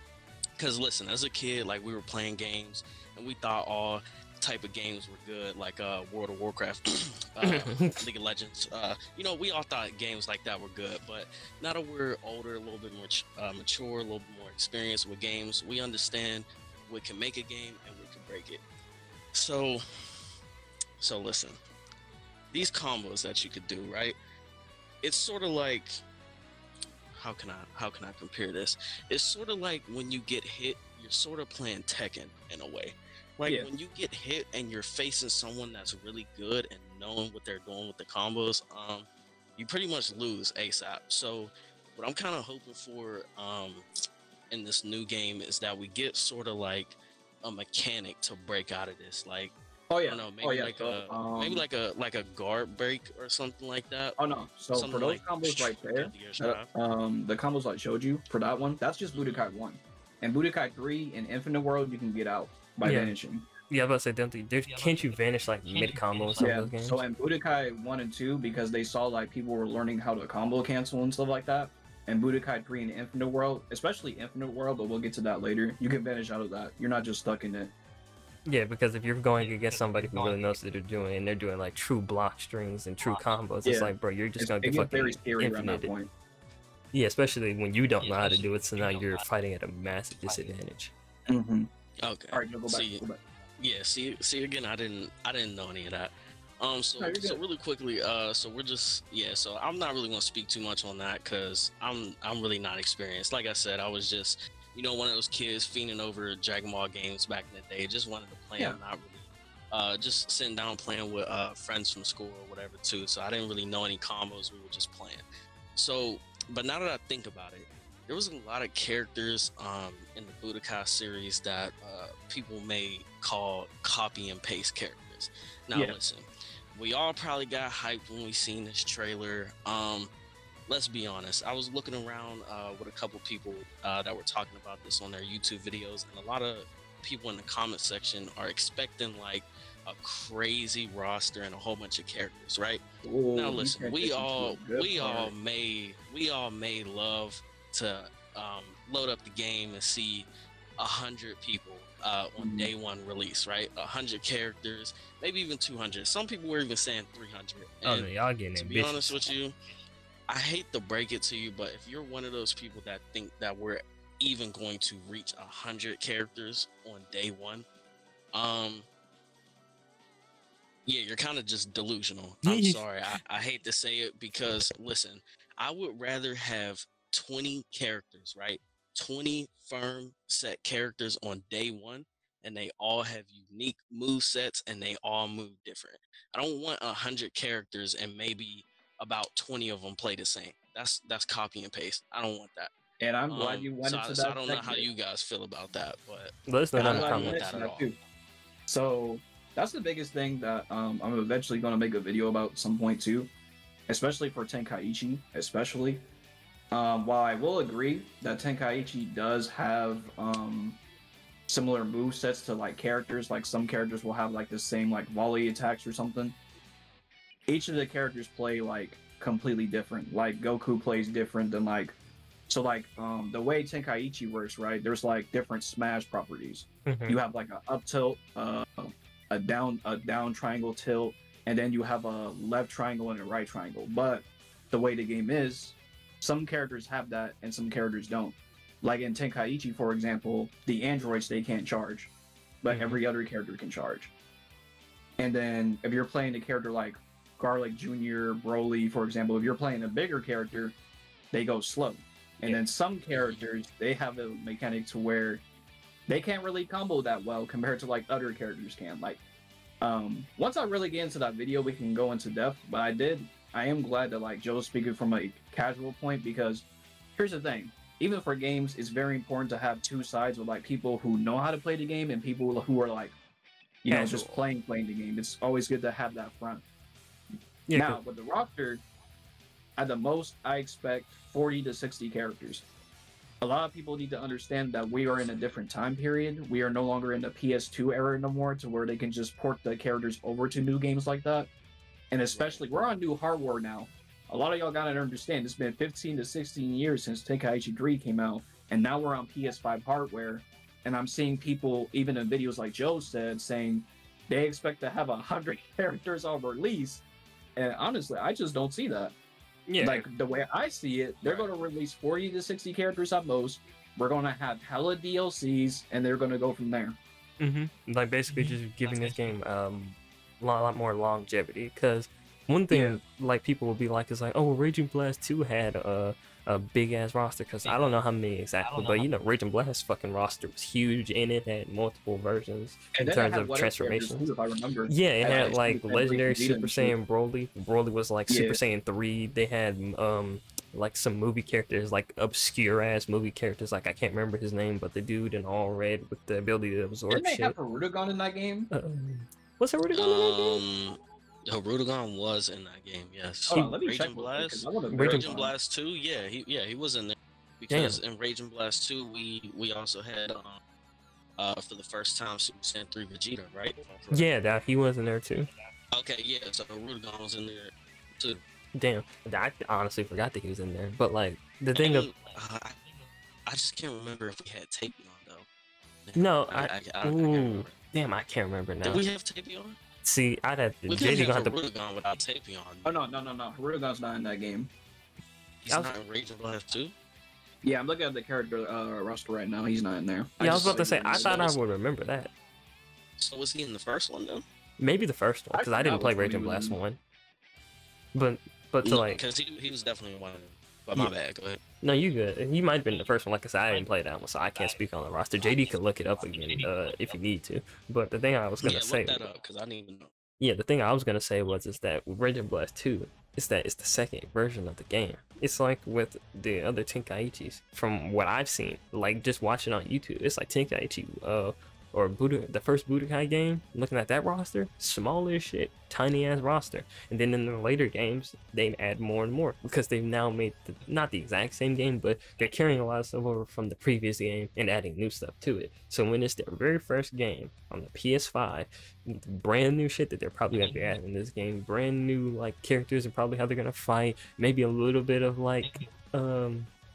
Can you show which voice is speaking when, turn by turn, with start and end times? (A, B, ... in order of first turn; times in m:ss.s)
0:00.6-0:18.6 A
0:07.4-0:08.0 B
0:19.3-0:19.8 A
0:21.0-0:21.6 A
0:22.5-0:24.2 A
0:25.0-0:26.0 A
0:27.2-0:43.9 A
0:44.5-0:54.2 A
0:49.9-0:51.7 C
0:54.2-1:03.5 C
0:54.7-0:56.7 A
0:59.1-0:59.5 A
1:02.8-1:03.1 B
1:03.7-1:07.0 B
1:06.4-1:17.7 C
1:18.5-1:25.9 B
1:23.6-1:26.1 C
1:26.9-1:30.9 B
1:31.3-1:31.7 C
1:32.0-1:33.0 A
1:32.3-1:33.2 C
1:33.6-1:55.2 A
1:37.0-1:37.4 C
1:55.8-2:10.1 A
2:10.7-2:22.8 A
2:23.0-2:25.3 C
2:23.3-2:39.5 A
2:32.4-2:32.7 C
2:37.8-2:39.3 B
2:40.3-2:47.7 A
2:48.3-2:48.9 A
2:50.9-3:12.7 A
2:52.4-2:52.8 B
3:13.0-3:14.9 C
3:13.3-3:17.9 A
3:16.5-3:17.5 B
3:16.8-3:18.0 C
3:18.7-3:23.3 C
3:23.9-3:26.1 C
3:26.7-3:30.8 C
3:31.5-3:36.4 C
3:37.5-3:42.0 C
3:42.5-4:02.1 C
3:46.9-3:47.2 B
4:02.6-4:04.1 C
4:02.7-4:03.0 B
4:05.2-4:10.8 C
4:11.3-4:15.4 C
4:13.1-4:13.4 A
4:16.1-4:19.2 C
4:19.8-4:26.6 C
4:27.2-4:33.2 C
4:33.8-4:36.6 C
4:33.9-4:34.4 B
4:37.7-4:38.0 B
4:37.7-4:38.8 C
4:39.8-4:42.6 C
4:43.4-4:51.5 C
4:52.1-5:07.0 C
4:52.3-4:52.6 A
5:07.6-5:09.2 C
5:09.7-5:10.1 B
5:09.8-5:17.0 C
5:11.2-5:11.5 A
5:17.4-5:34.3 B
5:22.7-5:23.0 C
5:33.0-5:37.0 C
5:34.9-5:47.6 B
5:38.3-5:38.6 C
5:47.1-5:48.7 C
5:48.7-5:50.6 B
5:49.9-6:00.6 A
5:53.5-5:55.5 C
5:54.9-5:55.3 B
5:57.7-5:58.0 B
6:01.4-6:04.3 A
6:04.1-6:05.5 B
6:05.9-6:08.4 A
6:08.8-6:12.1 B
6:11.8-6:12.8 A
6:13.5-6:15.5 A
6:16.0-6:17.8 A
6:16.2-6:19.0 B
6:18.8-6:19.8 A
6:20.0-6:21.6 B
6:20.9-6:23.0 A
6:22.8-6:24.7 C
6:25.6-6:27.0 A
6:27.6-6:31.5 C
6:30.4-6:32.3 B
6:31.1-6:31.6 A
6:33.2-6:34.4 A
6:34.8-6:37.0 B
6:35.5-6:36.8 C
6:38.1-6:39.2 B
6:38.8-6:41.6 A
6:41.8-6:49.3 B
6:48.6-6:50.1 A
6:50.4-7:26.7 B